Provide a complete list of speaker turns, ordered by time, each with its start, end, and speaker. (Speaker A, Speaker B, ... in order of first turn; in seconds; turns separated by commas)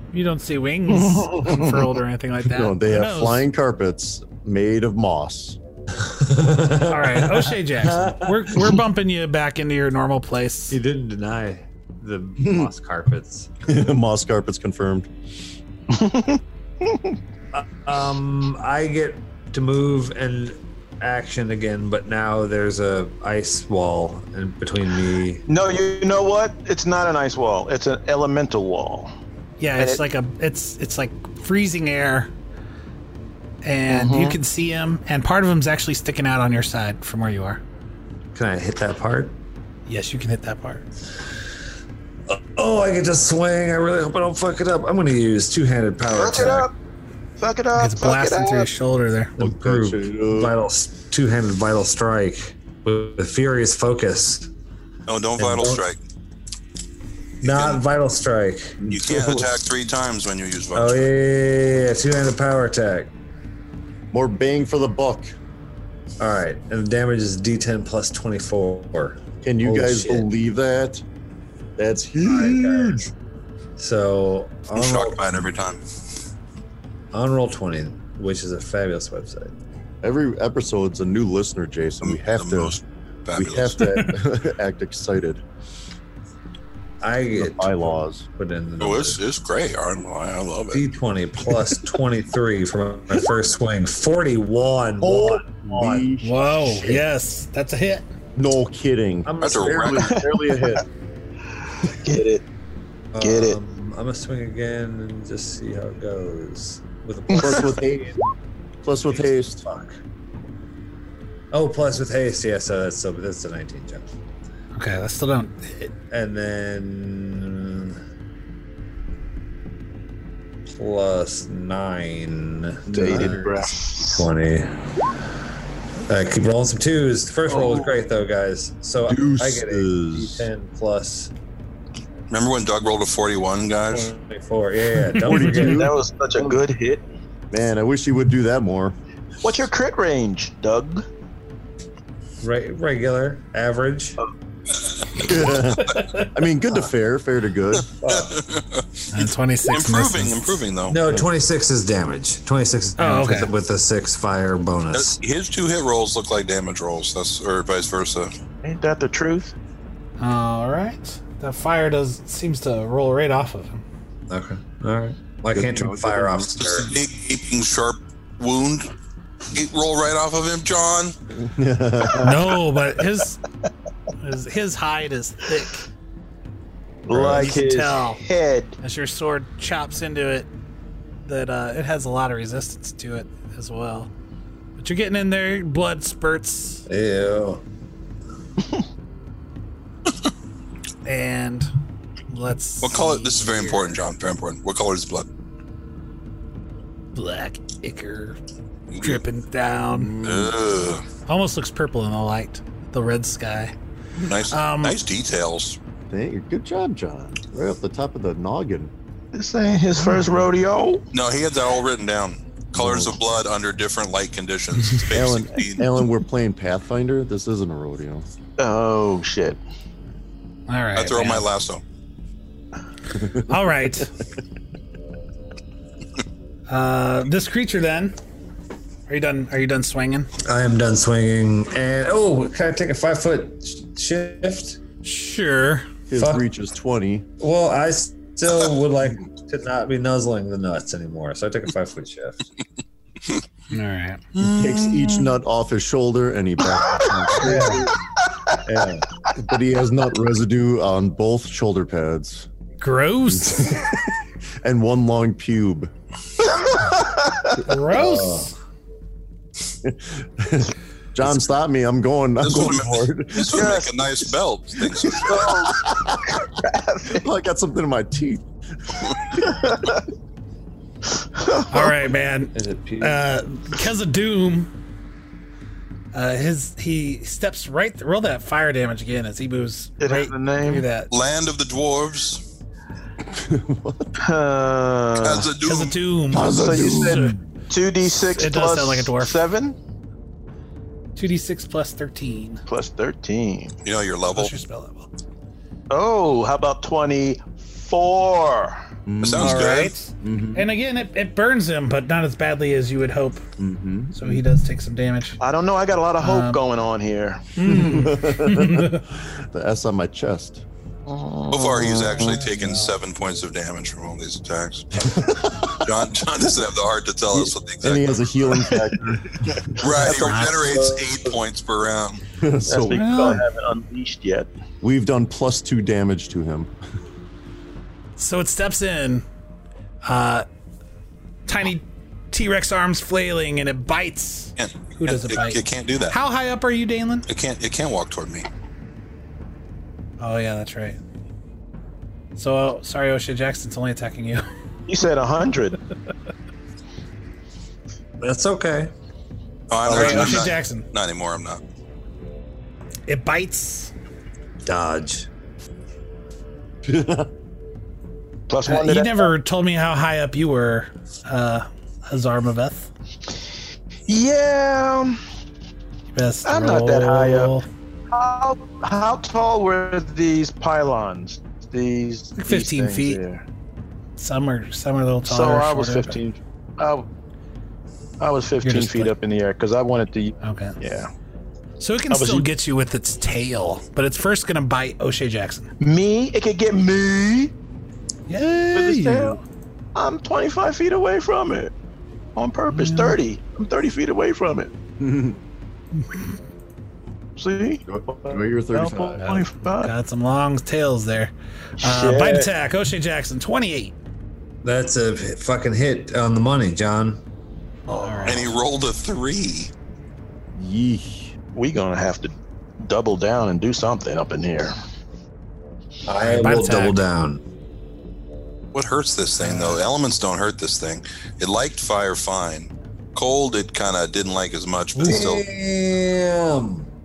Speaker A: 0.1-3.5, Speaker B: 0.9-1.7, Speaker C: 2.5-5.6, Speaker D: 6.0-8.8, Speaker A: 6.9-10.8, Speaker D: 10.7-13.5, Speaker C: 12.4-12.7, Speaker C: 13.7-15.1, Speaker B: 15.9-17.1, Speaker D: 17.5-25.4, Speaker B: 25.5-29.1, Speaker A: 29.6-32.3, Speaker A: 33.6-37.6, Speaker B: 33.9-34.4, Speaker D: 38.3-39.4, Speaker A: 39.9-40.8, Speaker D: 42.3-46.7, Speaker B: 46.1-46.7, Speaker B: 47.4-48.7, Speaker A: 47.8-49.3, Speaker D: 49.4-54.5, Speaker C: 49.4-50.5, Speaker E: 55.1-56.0, Speaker D: 55.4-55.8, Speaker E: 57.4-57.8, Speaker D: 57.4-59.4, Speaker C: 58.8-59.3, Speaker E: 58.9-61.1, Speaker D: 60.7-63.1, Speaker C: 64.1-65.3, Speaker D: 66.2-70.3, Speaker C: 69.4-71.0, Speaker C: 71.8-73.1, Speaker D: 72.2-73.1, Speaker D: 73.8-75.5, Speaker E: 74.7-75.8, Speaker D: 77.1-79.5, Speaker C: 80.0-82.8, Speaker E: 82.0-83.8, Speaker C: 83.3-85.4, Speaker A: 83.8-84.1, Speaker D: 87.0-89.2, Speaker C: 87.3-88.3, Speaker E: 88.8-90.8, Speaker D: 90.7-96.1, Speaker C: 95.0-97.0, Speaker A: 96.2-98.1, Speaker C: 98.4-100.8, Speaker D: 99.3-100.1, Speaker E: 99.4-100.1, Speaker B: 100.0-100.8, Speaker B: 101.9-102.5, Speaker D: 103.1-108.1, Speaker B: 103.2-103.6, Speaker B: 107.3-107.7, Speaker C: 107.4-108.2, Speaker C: 108.8-109.7, Speaker D: 109.6-110.0, Speaker D: 111.5-114.0, Speaker A: 114.8-115.9, Speaker D: 116.1-118.0, Speaker D: 120.7-123.5, Speaker B: 122.9-124.3, Speaker C: 122.9-123.5, Speaker D: 124.1-124.7, Speaker D: 126.1-131.3, Speaker C: 127.5-127.8, Speaker C: 129.1-130.5, Speaker E: 132.3-134.1, Speaker D: 133.9-135.9, Speaker C: 135.2-136.0, Speaker B: 135.4-137.1, Speaker C: 137.5-139.0, Speaker B: 139.4-141.1, Speaker D: 142.4-144.2, Speaker C: 145.2-147.9, Speaker E: 148.0-151.0, Speaker D: 148.0-148.4, Speaker A: 149.1-150.4, Speaker D: 150.9-155.2, Speaker A: 153.0-153.5, Speaker E: 154.9-158.3, Speaker B: 158.6-159.5, Speaker A: 160.2-163.8, Speaker D: 164.3-166.9, Speaker C: 165.5-166.8, Speaker E: 166.7-168.9, Speaker E: 169.5-171.2, Speaker C: 171.4-172.4, Speaker A: 172.2-173.4, Speaker A: 174.2-175.8, Speaker B: 177.1-178.8, Speaker D: 177.1-177.4, Speaker A: 177.3-178.2, Speaker A: 178.8-180.5, Speaker A: 181.2-184.1, Speaker A: 184.8-186.8, Speaker D: 186.9-187.6, Speaker A: 191.1-191.7, Speaker A: 192.3-193.9, Speaker E: 192.8-195.3, Speaker A: 197.2-198.4, Speaker E: 198.9-199.2, Speaker A: 199.0-200.1, Speaker E: 200.2-201.0, Speaker C: 200.2-200.5, Speaker A: 201.3-203.7, Speaker E: 204.2-205.8, Speaker A: 204.5-205.0, Speaker C: 206.1-208.9, Speaker B: 209.3-211.0, Speaker E: 211.1-215.9, Speaker C: 212.7-213.2, Speaker C: 215.0-218.3, Speaker B: 218.6-219.6, Speaker A: 220.7-221.5, Speaker E: 220.9-221.8, Speaker A: 223.3-224.1, Speaker A: 226.7-228.2, Speaker A: 229.1-230.3, Speaker D: 230.4-234.8, Speaker A: 235.0-235.9, Speaker C: 236.1-237.3, Speaker D: 236.2-236.4, Speaker D: 237.4-242.4, Speaker A: 243.7-244.2, Speaker E: 244.4-245.3, Speaker C: 244.4-247.9, Speaker B: 246.7-248.6, Speaker D: 247.4-247.9, Speaker D: 248.7-249.1, Speaker C: 249.4-252.5, Speaker A: 252.8-253.8, Speaker C: 253.3-255.9, Speaker B: 256.4-257.6, Speaker A: 257.6-258.5, Speaker D: 258.0-258.5, Speaker C: 259.8-263.7, Speaker E: 262.4-265.7, Speaker B: 263.5-264.3, Speaker B: 265.2-265.8, Speaker C: 265.2-266.4, Speaker B: 266.4-267.2, Speaker C: 267.1-269.6, Speaker B: 269.4-270.0, Speaker B: 271.4-271.9, Speaker A: 271.7-274.7, Speaker D: 272.5-273.2, Speaker A: 276.1-281.1, Speaker B: 280.0-280.9, Speaker E: 281.1-282.4, Speaker C: 283.3-284.1, Speaker B: 284.2-285.5, Speaker E: 285.2-286.0, Speaker A: 285.6-287.4, Speaker C: 286.3-287.4, Speaker B: 286.4-287.2, Speaker B: 287.7-289.8, Speaker A: 288.1-289.4, Speaker A: 291.2-292.6, Speaker B: 292.7-293.8, Speaker E: 293.8-294.5, Speaker A: 294.3-295.1, Speaker B: 295.9-298.8, Speaker C: 299.1-300.7, Speaker E: 299.2-299.9, Speaker A: 299.4-303.4, Speaker C: 303.6-304.4, Speaker A: 304.1-305.4, Speaker B: 305.4-307.6, Speaker A: 306.2-306.6, Speaker A: 307.6-309.0, Speaker C: 307.6-310.6, Speaker B: 311.1-312.5, Speaker E: 311.5-318.1, Speaker A: 312.4-312.9, Speaker C: 315.0-315.7, Speaker C: 317.3-319.7, Speaker E: 319.8-322.2, Speaker B: 319.9-321.3, Speaker A: 319.9-320.8, Speaker C: 322.4-323.4, Speaker B: 322.7-324.5, Speaker A: 323.0-323.4, Speaker C: 324.8-326.7, Speaker A: 328.2-329.2, Speaker A: 330.0-330.5, Speaker A: 331.5-337.3, Speaker E: 334.6-336.1, Speaker E: 337.3-338.5, Speaker A: 340.2-341.0, Speaker A: 342.4-344.4, Speaker B: 344.9-345.8, Speaker D: 348.2-348.9, Speaker E: 349.7-351.6, Speaker B: 349.9-350.6, Speaker A: 349.9-350.9, Speaker A: 353.1-353.9, Speaker D: 354.6-355.3, Speaker C: 356.8-357.3, Speaker B: 358.5-359.3, Speaker A: 358.6-362.9, Speaker B: 364.1-365.2, Speaker A: 366.1-367.7, Speaker B: 366.5-367.6, Speaker B: 368.1-373.4, Speaker A: 372.4-373.2, Speaker A: 374.2-376.2, Speaker B: 375.3-377.1, Speaker B: 378.2-381.1, Speaker A: 378.6-379.1, Speaker A: 380.4-380.8, Speaker A: 381.8-385.7, Speaker B: 382.1-382.5, Speaker B: 385.8-387.5, Speaker A: 388.3-389.4, Speaker B: 388.8-389.4, Speaker B: 389.9-391.7, Speaker B: 392.4-394.7, Speaker A: 392.7-393.2, Speaker C: 395.0-395.4, Speaker B: 397.4-399.9, Speaker C: 397.9-399.5, Speaker A: 399.8-404.0, Speaker B: 401.8-402.5, Speaker D: 404.6-407.2, Speaker A: 407.9-408.5, Speaker E: 408.2-409.7, Speaker C: 410.6-411.3, Speaker B: 411.5-414.7, Speaker D: 416.1-417.4, Speaker A: 416.2-417.0, Speaker E: 418.7-425.4, Speaker A: 419.4-419.8, Speaker A: 424.9-425.3, Speaker D: 425.0-426.9